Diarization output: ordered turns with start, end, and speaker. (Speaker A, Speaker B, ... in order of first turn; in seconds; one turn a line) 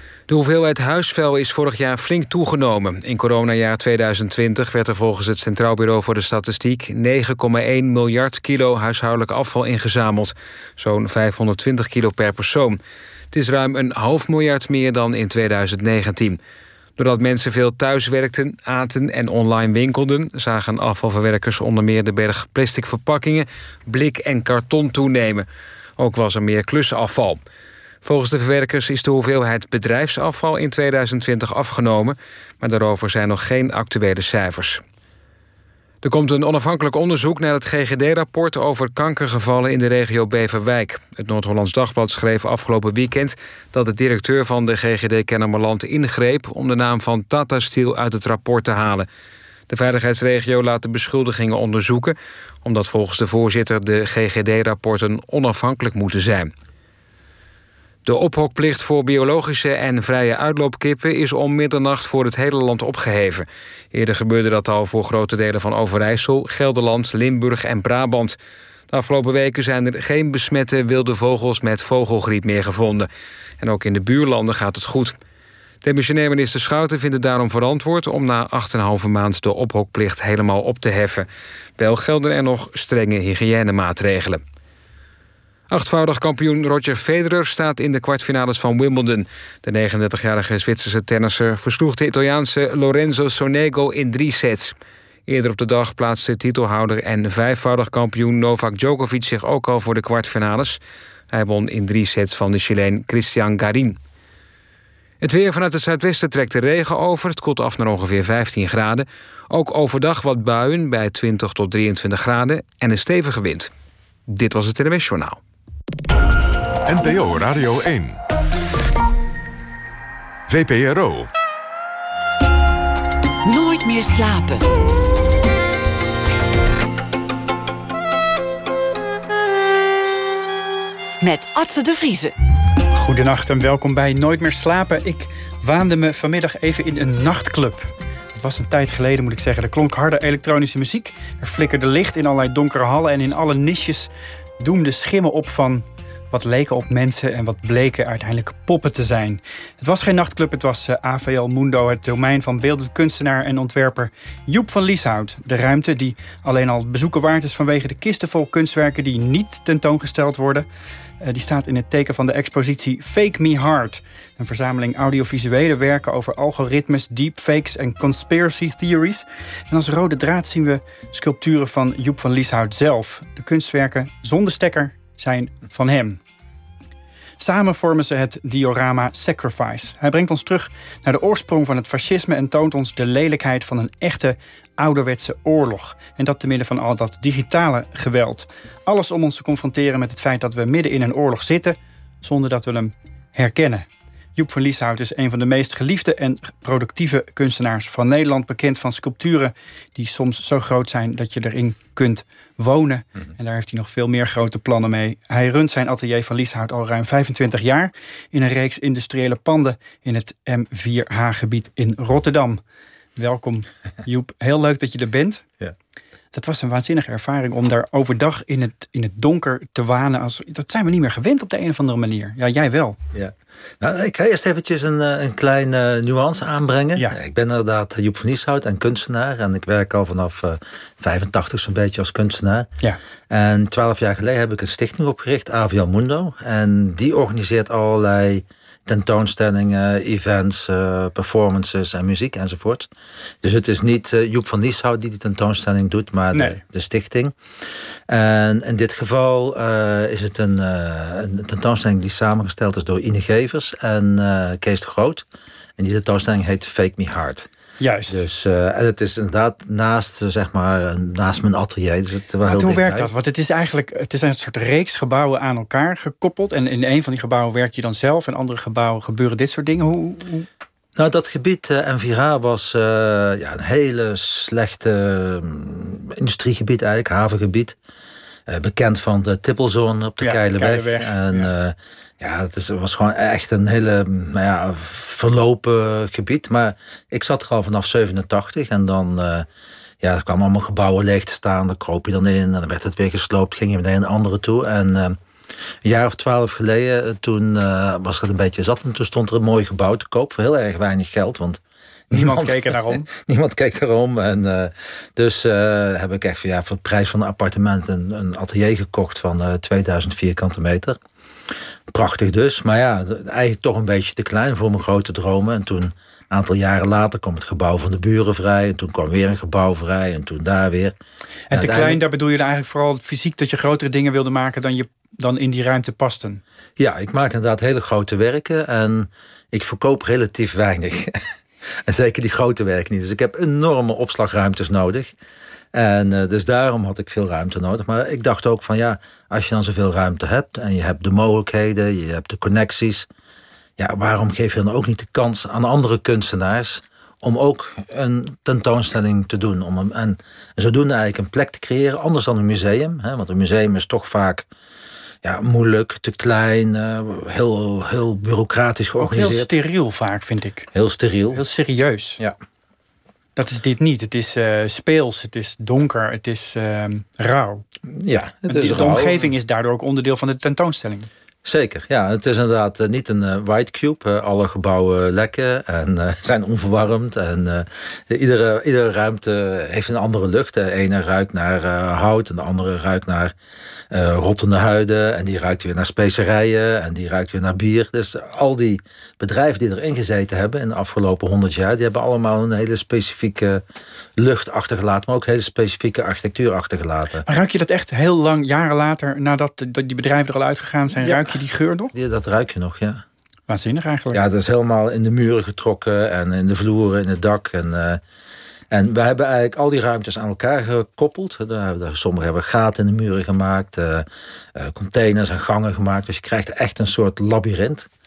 Speaker A: 0.3-12.8
Speaker A: 13.3-16.4
Speaker A: 17.0-25.5
Speaker A: 26.0-27.4
Speaker A: 28.0-34.8
Speaker A: 36.0-49.1
Speaker A: 49.7-56.5
Speaker A: 58.0-68.4
Speaker A: 68.9-73.1
Speaker A: 73.6-75.2
Speaker A: 75.8-81.3
Speaker A: 81.8-84.4
Speaker A: 85.7-94.7
Speaker A: 95.3-100.8
Speaker A: 101.3-104.0
Speaker A: 105.2-113.7
Speaker A: 114.3-115.4
Speaker B: 116.8-118.2
Speaker B: 120.5-121.3
Speaker C: 123.4-124.7
Speaker C: 131.2-132.3
Speaker D: 132.9-160.7
Speaker D: 161.2-176.2
Speaker D: 177.4-212.6
Speaker D: 213.2-215.5
Speaker D: 216.3-223.0
Speaker E: 223.1-232.7
Speaker E: 233.3-242.9
Speaker E: 243.4-247.3
Speaker E: 248.1-255.2
Speaker E: 255.8-257.5
Speaker D: 257.8-258.2
Speaker E: 258.1-263.1
Speaker D: 262.4-270.5
Speaker E: 270.9-277.8
Speaker E: 278.5-289.5
Speaker D: 280.2-281.5
Speaker E: 290.0-295.2
Speaker E: 295.8-311.0
Speaker D: 302.1-303.1
Speaker E: 311.9-320.9
Speaker D: 321.5-326.4
Speaker E: 321.5-322.0
Speaker E: 326.8-331.2
Speaker E: 331.8-335.1
Speaker E: 335.7-343.1
Speaker E: 343.8-354.5
Speaker E: 355.2-359.5
Speaker D: 359.0-360.7
Speaker E: 360.7-361.4
Speaker D: 361.3-362.2
Speaker D: 363.4-367.6
Speaker E: 367.9-369.3
Speaker D: 368.5-371.1
Speaker E: 371.4-383.3
Speaker E: 383.9-393.6
Speaker E: 394.2-397.2
Speaker D: 397.2-401.9
Speaker E: 401.0-401.4
Speaker E: 401.9-403.0
Speaker D: 403.5-404.2
Speaker E: 404.1-408.0
Speaker E: 408.7-417.9